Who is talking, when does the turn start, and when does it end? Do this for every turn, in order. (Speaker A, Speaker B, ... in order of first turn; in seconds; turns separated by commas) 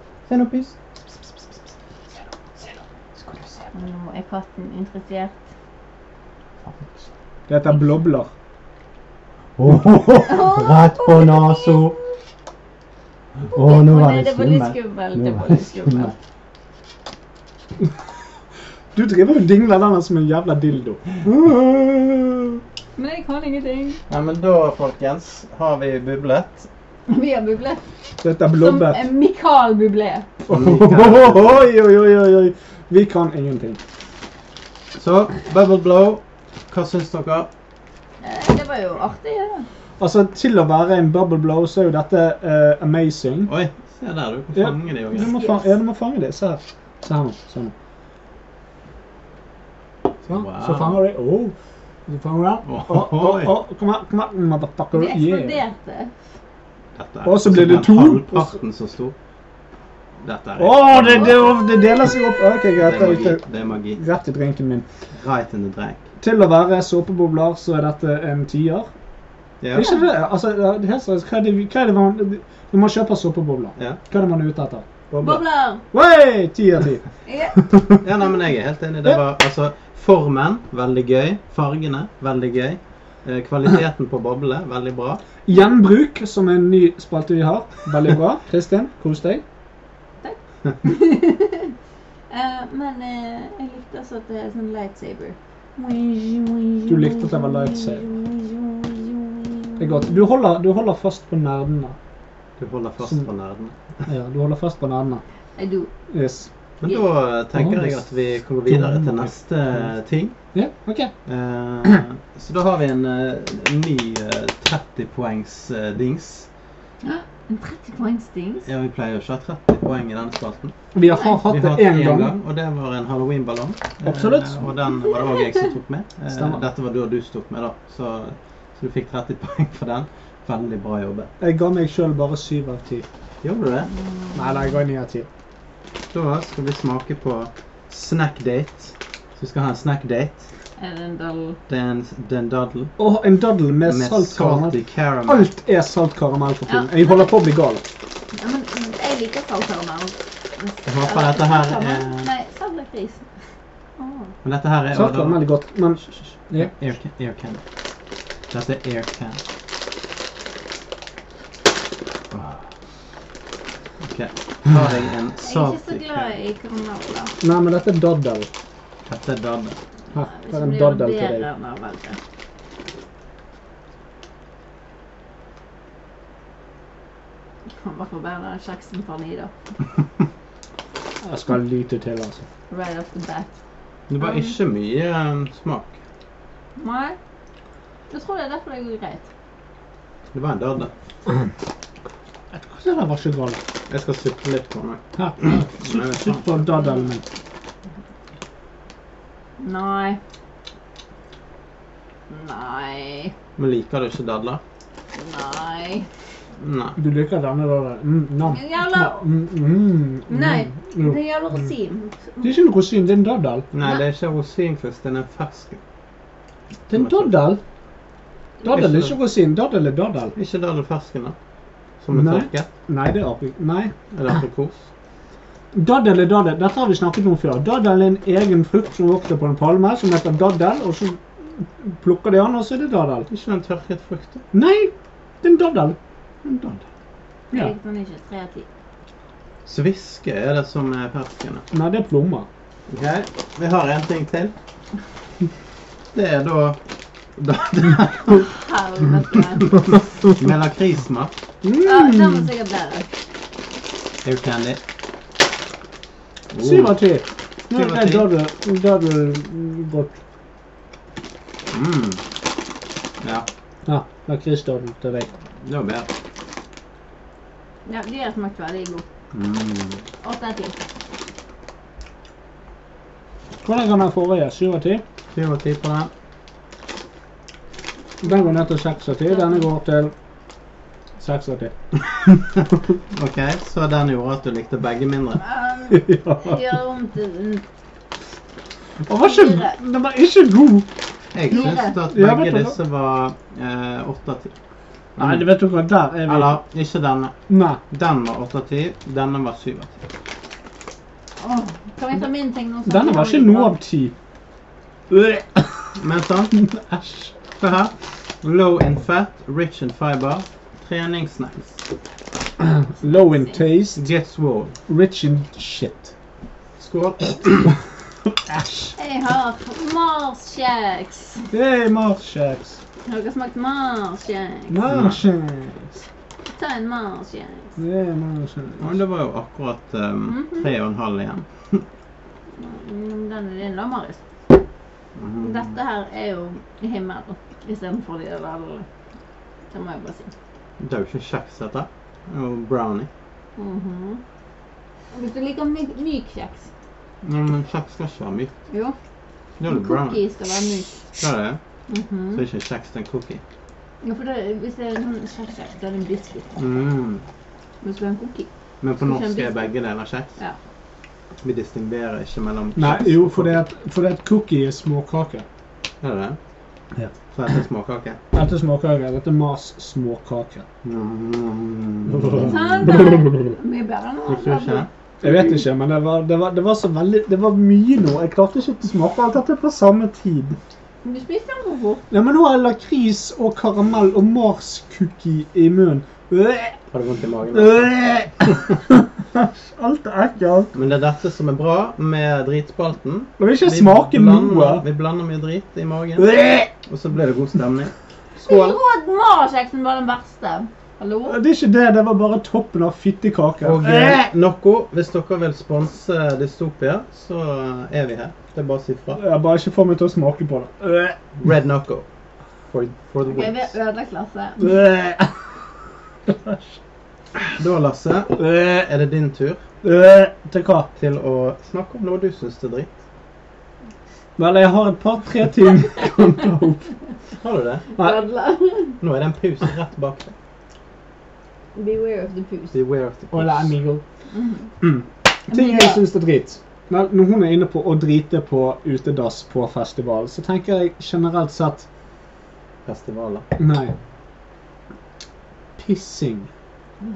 Speaker A: 0.3-1.5, Speaker A: 2.5-3.7, Speaker B: 3.7-5.3, Speaker A: 6.6-7.0, Speaker C: 7.5-8.3, Speaker A: 9.6-11.9, Speaker B: 10.1-12.1, Speaker A: 13.5-16.1, Speaker B: 13.5-16.1, Speaker C: 18.9-22.6, Speaker B: 22.9-24.0, Speaker A: 24.1-26.7, Speaker B: 27.1-27.8, Speaker C: 28.2-29.0, Speaker B: 28.4-30.3, Speaker C: 30.5-33.8, Speaker A: 30.5-31.7, Speaker A: 35.0-37.5, Speaker B: 38.2-39.7, Speaker C: 40.0-43.5, Speaker A: 43.5-45.3, Speaker C: 44.5-47.7, Speaker B: 45.1-45.7, Speaker A: 50.2-51.0, Speaker C: 50.3-51.5, Speaker C: 52.1-55.6, Speaker A: 52.6-53.5, Speaker B: 54.9-56.1, Speaker A: 57.0-59.1, Speaker C: 57.2-58.5, Speaker A: 60.2-61.5, Speaker C: 60.6-64.8, Speaker B: 61.2-61.9, Speaker A: 62.8-64.0, Speaker A: 65.2-66.0, Speaker C: 66.2-68.9, Speaker A: 69.6-69.9, Speaker C: 69.7-74.8, Speaker B: 69.8-70.0, Speaker A: 75.1-75.4, Speaker B: 75.2-75.8, Speaker C: 75.9-77.0, Speaker B: 77.2-77.6, Speaker C: 77.6-77.9, Speaker A: 78.0-85.2, Speaker C: 85.5-89.4, Speaker B: 90.2-91.7, Speaker B: 92.3-100.2, Speaker C: 96.9-98.0, Speaker C: 99.8-101.9, Speaker A: 102.6-103.8, Speaker C: 104.1-105.2, Speaker B: 105.5-105.9, Speaker C: 106.1-106.5, Speaker A: 106.8-110.3, Speaker C: 107.5-108.1, Speaker C: 108.7-109.3, Speaker C: 110.5-111.1, Speaker A: 111.2-116.5, Speaker B: 117.0-118.6, Speaker A: 118.6-120.7, Speaker C: 120.9-122.3, Speaker B: 121.1-121.4, Speaker A: 121.4-131.3, Speaker C: 124.0-124.7, Speaker B: 125.0-125.6, Speaker C: 126.3-126.6, Speaker C: 131.4-133.1, Speaker A: 133.4-133.9, Speaker B: 133.9-134.7, Speaker C: 134.3-135.3, Speaker A: 136.1-140.5, Speaker B: 140.8-141.6, Speaker A: 141.7-142.9, Speaker C: 143.0-144.7, Speaker A: 143.8-145.5, Speaker C: 145.2-147.8, Speaker B: 146.7-147.3, Speaker B: 148.3-153.2, Speaker A: 150.8-152.3, Speaker B: 154.0-154.3, Speaker A: 154.4-155.4, Speaker C: 154.9-156.7, Speaker A: 156.0-157.6, Speaker A: 158.5-159.4, Speaker A: 162.3-162.6, Speaker A: 164.0-166.3, Speaker B: 165.4-167.3, Speaker C: 167.4-168.5, Speaker A: 169.1-169.8, Speaker C: 170.1-171.4, Speaker B: 170.3-172.2, Speaker B: 177.8-179.5, Speaker C: 181.2-182.4, Speaker B: 182.7-183.5, Speaker A: 184.1-186.0, Speaker B: 184.2-184.5, Speaker B: 186.8-187.2, Speaker B: 188.1-189.2, Speaker A: 190.3-190.9, Speaker C: 192.5-193.6, Speaker A: 193.9-196.7, Speaker C: 195.2-197.2, Speaker B: 199.6-200.2, Speaker B: 202.3-203.3, Speaker A: 203.6-204.6, Speaker B: 205.1-206.1, Speaker A: 206.6-207.0, Speaker C: 207.0-211.2, Speaker B: 208.4-209.2, Speaker B: 210.3-212.6, Speaker C: 212.4-213.7, Speaker A: 213.7-215.8, Speaker C: 216.9-217.6, Speaker A: 216.9-217.4, Speaker A: 218.6-219.1, Speaker C: 218.6-220.3, Speaker A: 220.3-221.3, Speaker A: 222.0-222.7, Speaker C: 222.1-223.9, Speaker A: 224.1-224.8, Speaker C: 225.7-233.3, Speaker A: 233.3-234.4, Speaker C: 234.5-236.0, Speaker A: 236.4-236.8, Speaker B: 237.5-238.7, Speaker A: 239.6-241.6, Speaker C: 241.7-242.5, Speaker A: 242.9-244.5, Speaker A: 246.1-246.8, Speaker A: 247.3-248.5, Speaker B: 248.4-250.0, Speaker A: 249.6-251.3, Speaker C: 251.6-252.5, Speaker B: 251.8-253.1, Speaker A: 254.2-254.8, Speaker A: 256.5-257.0, Speaker C: 256.6-260.2, Speaker A: 257.7-258.3, Speaker A: 261.7-262.2, Speaker A: 263.2-263.5, Speaker C: 263.9-265.3, Speaker A: 265.6-266.1, Speaker B: 267.9-269.1, Speaker A: 269.3-270.0, Speaker B: 270.2-270.9, Speaker C: 273.6-275.0, Speaker A: 275.3-276.1, Speaker C: 278.2-280.1, Speaker B: 279.3-279.7, Speaker C: 281.2-281.7, Speaker A: 282.1-285.4, Speaker B: 285.4-287.6, Speaker C: 285.9-286.7, Speaker C: 289.1-290.9, Speaker B: 289.1-289.8, Speaker A: 291.3-294.5, Speaker B: 291.5-292.0, Speaker C: 291.5-292.8, Speaker A: 295.2-295.5, Speaker C: 295.2-296.6, Speaker A: 296.2-297.4, Speaker C: 297.5-297.8, Speaker A: 297.9-300.0, Speaker B: 301.4-303.8, Speaker C: 302.9-304.1, Speaker C: 305.1-305.9, Speaker A: 305.9-306.6, Speaker C: 306.5-307.3, Speaker A: 307.6-311.8, Speaker C: 312.6-314.1, Speaker B: 313.0-313.6, Speaker A: 313.9-314.7, Speaker C: 314.9-316.1, Speaker A: 316.8-317.7, Speaker C: 318.4-318.9, Speaker B: 319.0-321.4, Speaker C: 321.5-322.8, Speaker B: 323.1-324.8, Speaker C: 324.7-326.0, Speaker A: 324.9-325.2, Speaker B: 326.5-327.8, Speaker C: 327.8-329.0, Speaker A: 328.8-331.8, Speaker B: 330.3-330.7, Speaker B: 332.5-334.2, Speaker A: 335.1-335.7, Speaker B: 335.4-338.9, Speaker B: 339.7-340.3, Speaker A: 340.8-343.1, Speaker B: 343.6-344.2, Speaker B: 345.1-346.7, Speaker A: 347.2-348.5, Speaker B: 348.7-348.9, Speaker A: 349.6-350.2, Speaker B: 349.7-351.1, Speaker A: 351.2-351.6, Speaker B: 351.9-352.4, Speaker A: 352.3-353.4, Speaker B: 354.0-356.5, Speaker A: 356.6-357.2, Speaker B: 357.8-358.5, Speaker A: 358.8-360.3, Speaker B: 359.0-359.7, Speaker A: 361.4-363.6, Speaker C: 362.8-365.4, Speaker A: 366.0-366.4, Speaker A: 367.3-368.2, Speaker C: 368.3-370.6, Speaker A: 370.8-372.9, Speaker C: 372.1-373.5, Speaker B: 372.4-375.4, Speaker A: 374.3-374.9, Speaker C: 375.2-380.6, Speaker B: 381.0-382.1, Speaker C: 382.1-386.8, Speaker A: 386.9-388.0, Speaker C: 387.5-390.7, Speaker A: 390.7-398.8, Speaker C: 393.4-394.8, Speaker C: 396.2-396.7, Speaker B: 398.4-401.4, Speaker C: 401.2-404.3, Speaker A: 403.6-409.2, Speaker C: 409.1-411.2, Speaker A: 411.4-412.1, Speaker A: 412.7-413.7, Speaker B: 413.2-414.7, Speaker C: 414.6-415.3, Speaker C: 416.2-416.8, Speaker A: 417.5-419.6, Speaker C: 418.4-418.8, Speaker C: 419.8-420.9, Speaker A: 421.0-422.9, Speaker C: 424.4-426.9, Speaker A: 427.4-427.8, Speaker B: 427.9-429.0, Speaker C: 428.0-428.2, Speaker A: 429.0-430.3, Speaker B: 431.7-432.7, Speaker A: 432.7-433.7, Speaker C: 433.3-434.0, Speaker B: 434.3-434.7, Speaker C: 434.8-441.9, Speaker B: 435.5-436.0, Speaker A: 442.9-443.5, Speaker C: 443.6-443.9, Speaker C: 445.8-446.5